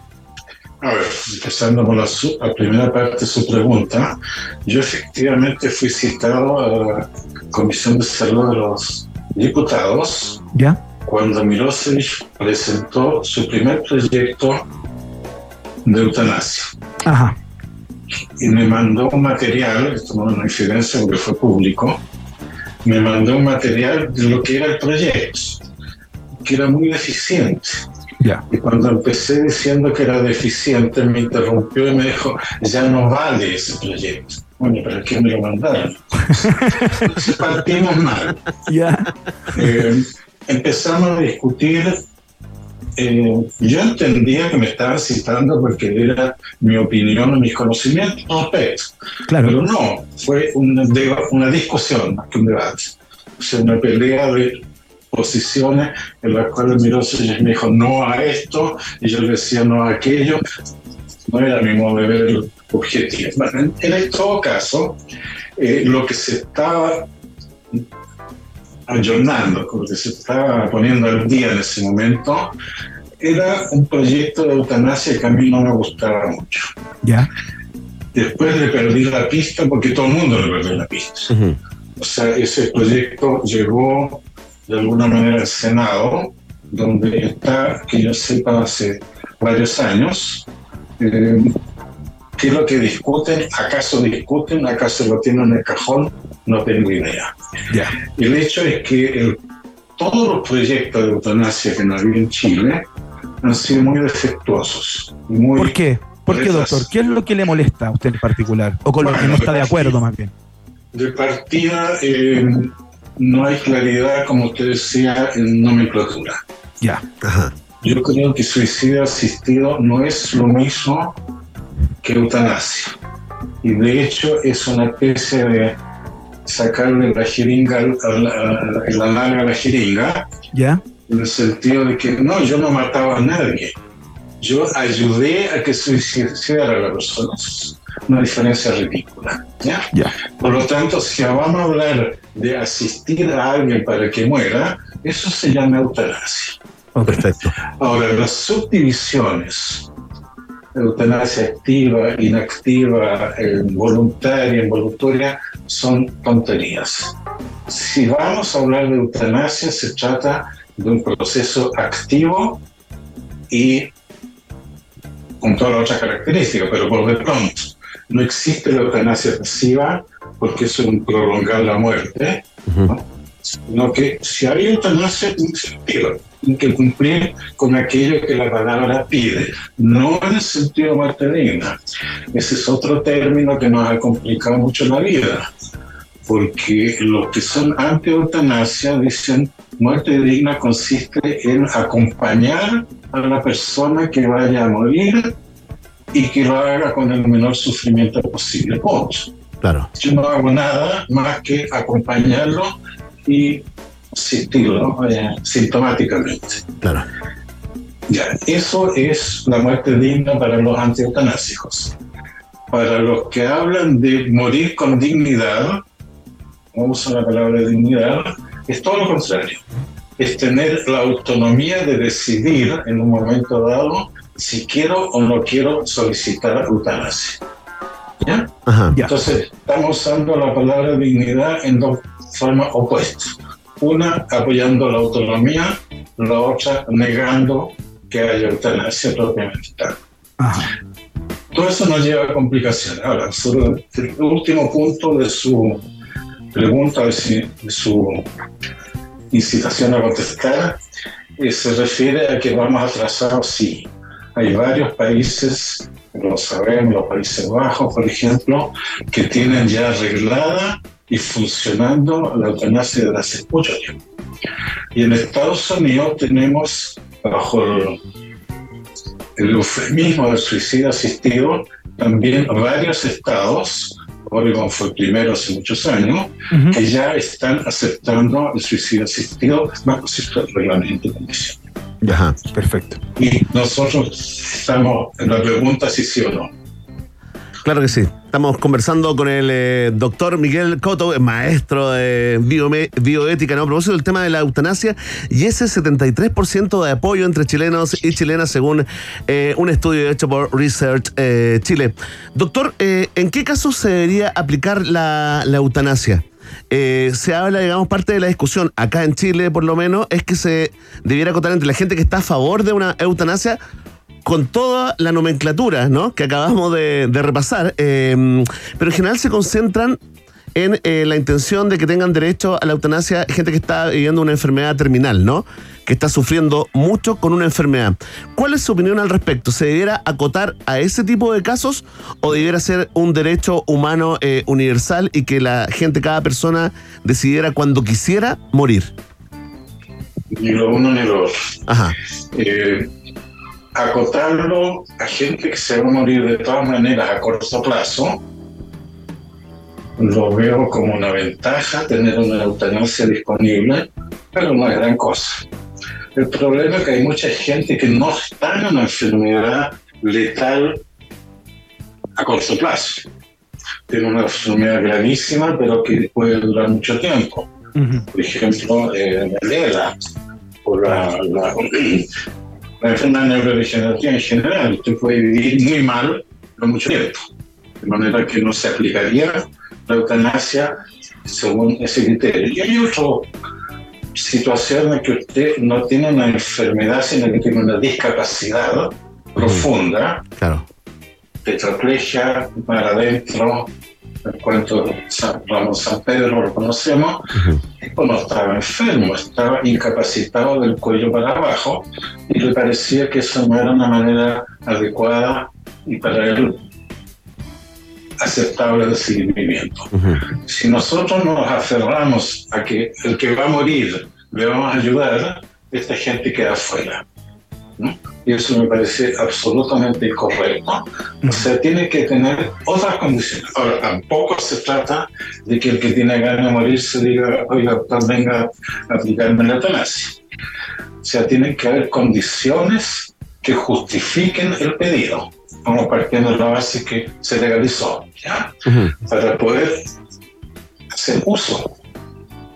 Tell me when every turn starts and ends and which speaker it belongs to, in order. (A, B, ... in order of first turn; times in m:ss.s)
0:00.8-0:10.4 A
0:10.5-0:10.8 B
0:11.0-0:14.7 A
0:15.8-0:16.8 A
0:17.0-0:17.4 B
0:18.4-0:22.0 A
0:22.8-0:25.6 A
0:26.4-0:27.9 A
0:28.5-0:38.4 A
0:36.3-0:37.0 B
0:38.7-0:39.7 B
0:39.5-0:42.0 A
0:43.0-1:00.4 A
0:49.3-0:49.6 B
1:01.3-1:05.0 A
1:05.6-1:07.1 A
1:08.9-1:12.5 A
1:13.2-1:16.7 A
1:17.0-1:17.3 B
1:18.1-1:21.3 A
1:21.3-1:21.6 C
1:22.0-1:30.5 A
1:31.0-1:31.5 A
1:32.4-1:37.3 A
1:37.7-1:38.0 B
1:38.1-1:39.4 A
1:40.0-1:42.9 A
1:43.4-1:46.9 A
1:45.6-1:50.3 B
1:49.0-1:50.0 A
1:50.9-1:56.4 A
1:57.2-1:57.5 C
1:57.8-2:01.2 A
2:02.0-2:03.0 A
2:03.6-2:05.8 A
2:06.4-2:10.3 A
2:10.5-2:10.8 B
2:11.1-2:13.8 A
2:14.4-2:19.9 A
2:20.4-2:26.6 A
2:27.0-2:27.3 B
2:27.1-2:27.5 C
2:27.8-2:29.9 A
2:30.8-2:37.2 A
2:37.7-2:42.6 A
2:43.5-2:43.9 A
2:45.4-3:01.8 A
2:52.7-2:52.9 C
3:02.3-3:05.5 A
3:06.3-3:15.3 A
3:16.1-3:19.3 A
3:19.6-3:19.9 C
3:20.0-3:26.7 A
3:26.8-3:27.1 C
3:28.1-3:32.0 A
3:32.7-3:35.8 A
3:36.7-3:39.6 A
3:40.2-3:47.4 A
3:48.2-4:00.0 A
3:48.7-3:49.0 C
4:00.4-4:00.7 B
4:01.5-4:05.8 A
4:06.5-4:08.3 A
4:09.3-4:10.8 A
4:11.4-4:24.0 A
4:24.9-4:28.0 A
4:29.4-4:41.6 A
4:36.5-4:36.8 B
4:42.0-4:43.0 B
4:42.1-4:42.4 C
4:43.2-4:46.5 A
4:47.6-5:13.6 C
5:14.2-5:20.0 C
5:20.6-5:38.9 C
5:40.3-5:41.4 A
5:41.7-5:42.0 C
5:42.3-5:42.9 A
5:43.8-5:48.2 A
5:50.0-5:55.5 A
5:56.2-6:00.8 A
6:02.2-6:03.1 A
6:03.9-6:07.5 A
6:07.8-6:08.1 B
6:08.1-6:10.0 A
6:10.6-6:12.1 A
6:12.8-6:17.2 A
6:17.8-6:20.7 A
6:21.2-6:23.3 A
6:24.2-6:30.3 A
6:29.4-6:29.6 C
6:30.4-6:30.6 C
6:31.4-6:33.7 A
6:34.2-6:37.2 A
6:37.4-6:37.6 C
6:37.8-6:46.6 A
6:48.2-6:57.0 A
6:49.9-6:50.2 C
6:57.8-7:10.2 A
7:11.0-7:18.5 A
7:18.7-7:18.9 C
7:19.0-7:19.8 A
7:20.9-7:21.7 A